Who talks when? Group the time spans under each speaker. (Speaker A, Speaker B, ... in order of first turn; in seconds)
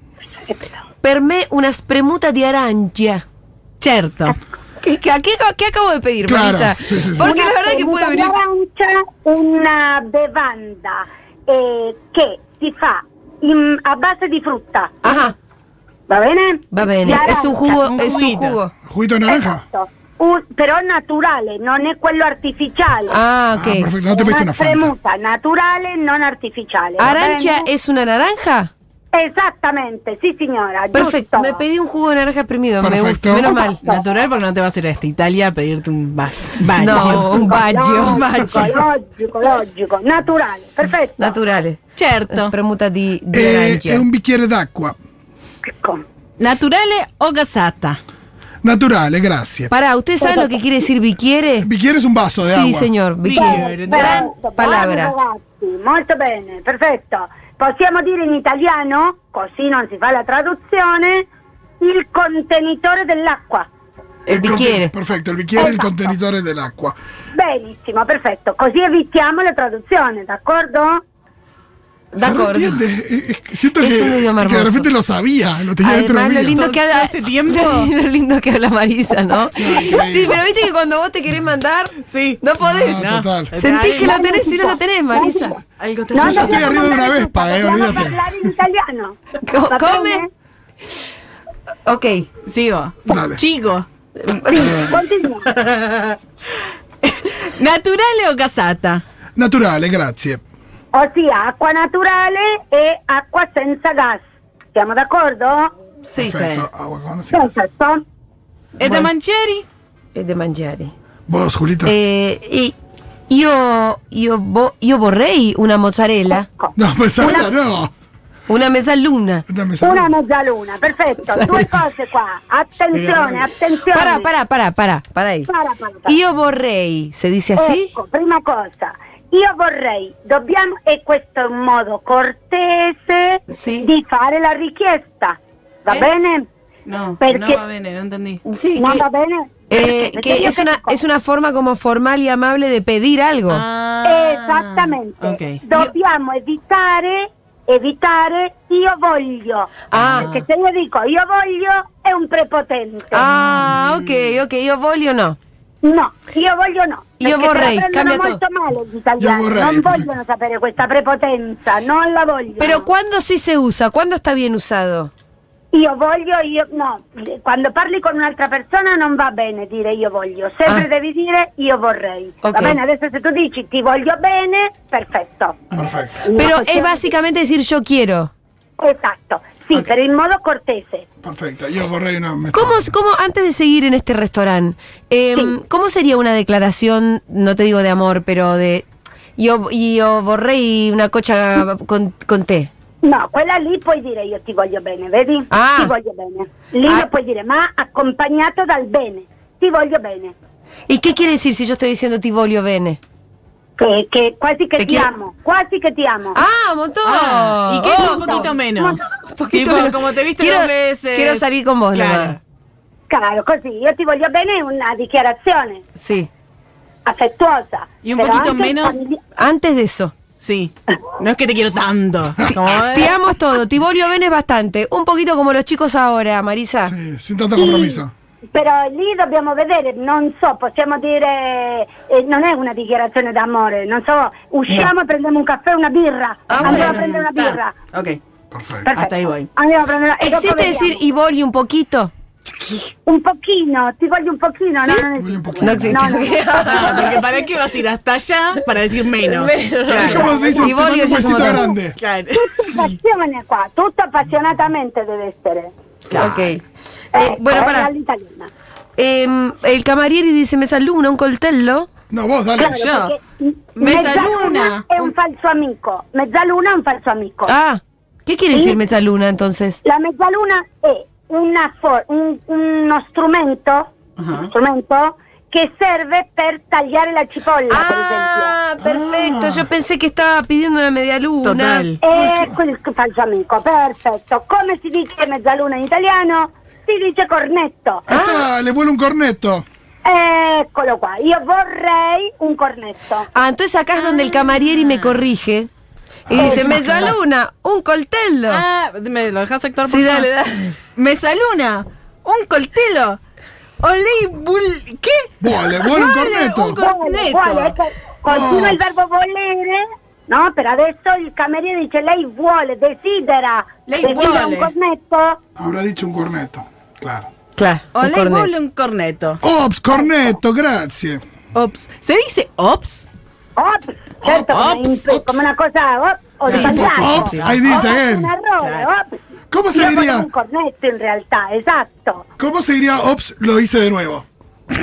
Speaker A: 0.5-0.8, 7.2-15.2, 16.1-18.1, 19.2-23.2, 24.1-27.7, 29.1-31.6, 33.4-34.0, 36.9-41.4, 45.6-46.0, 50.2-50.6, 53.3-61.3, 61.8-63.7, 65.6-66.1, 67.3-71.0, 83.9-85.5, 86.1-90.2, 94.5-95.5, 100.9-104.2, 104.7-105.7, 107.3-108.0, 116.4-116.7, 119.8-124.3, 125.5-126.2, 127.5-136.5, 137.2-137.6, 138.8-141.0, 144.0-153.3, 155.8-162.9, 165.7-175.6, 176.2-177.1, 178.8-181.1, 193.0-200.3, 203.8-206.4, 207.9-209.1, 213.1-215.8, 217.0-219.2, 227.6-237.8, 238.8-241.0, 243.1-247.5, 249.9-251.7, 252.3-255.7, 257.1-258.5, 262.6-267.5, 268.5-268.8, 269.8-278.6, 282.0-288.1, 290.0-293.3, 296.4-297.1, 306.6-315.4, 319.9-320.2, 323.6-329.2, 329.7-332.2
Speaker B: 1.0-3.2, 4.8-8.3, 15.0-15.3, 16.7-18.7, 23.1-23.9, 27.0-28.7, 30.9-33.8, 36.8-38.2, 41.2-44.0, 49.7-51.7, 52.4-55.1, 64.2-64.9, 72.1-72.8, 73.8-74.9, 75.8-85.5, 89.4-90.2, 91.8-92.3, 94.2-94.9, 106.1-106.3, 108.8-109.1, 110.1-110.9, 111.8-112.7, 113.3-116.5, 118.5-119.4, 121.2-121.6, 123.9-125.5, 126.1-127.9, 133.5-133.9, 138.4-139.0, 139.7-143.6, 149.9-150.3, 153.1-155.4, 157.2-158.4, 162.6-165.1, 172.4-172.8, 176.3-178.3, 182.5-188.8, 189.4-192.7, 195.5-195.9, 200.9-203.0, 204.8-205.1, 206.3-208.5, 209.1-212.4, 215.9-216.3, 219.4-220.1, 222.5-226.9, 236.5-237.0, 240.2-242.1, 245.6-247.2, 249.2-251.7, 256.1-256.6, 257.1-257.9, 258.9-261.9, 263.8-264.2, 267.4-269.8, 277.7-281.9, 288.1-288.5, 293.3-295.7, 296.3-298.6, 299.8-300.8, 317.6-318.5, 326.4-327.1
Speaker C: 3.8-4.3, 17.8-18.6, 33.8-38.8, 42.0-42.5, 46.4-48.0, 53.2-54.2, 76.5-77.9, 82.1-82.4, 83.0-84.2, 85.8-86.9, 92.5-93.8, 95.5-96.2, 97.0-99.0, 106.2-106.7, 108.8-109.7, 117.2-117.5, 122.9-123.5, 136.8-138.4, 143.5-145.6, 149.9-150.4, 153.2-154.4, 207.0-212.4, 218.0-219.0, 220.4-223.2, 236.6-238.2, 238.9-239.5, 246.6-250.2, 252.0-252.9, 262.6-263.1, 263.8-265.1, 274.2-274.5, 281.4-282.0, 293.9-295.2, 298.5-300.3, 300.9-303.2, 303.8-307.8, 313.9-314.7, 317.9-319.4, 321.5-323.1, 324.5-325.1, 326.4-328.0, 328.6-328.9
Speaker D: 6.2-7.4, 18.9-19.6, 23.5-24.9, 32.8-33.5, 43.3-45.0, 48.6-49.7, 51.6-52.9, 64.3-67.0, 72.2-76.6, 79.5-80.4, 82.6-83.5, 86.2-88.5, 93.1-93.4, 99.3-100.4, 106.2-107.5, 111.3-111.9, 116.8-117.9, 119.5-120.1, 159.2-160.1, 175.7-176.2, 181.2-182.8, 226.8-228.1, 238.5-238.9, 245.2-246.2, 249.9-252.0, 262.1-262.8, 278.8-279.7, 282.1-282.5, 288.1-289.6, 296.3-297.1, 305.4-306.8, 308.2-308.9, 315.6-317.3, 319.4-321.2, 324.2-325.4, 326.5-328.3, 329.5-330.3, 332.4-334.2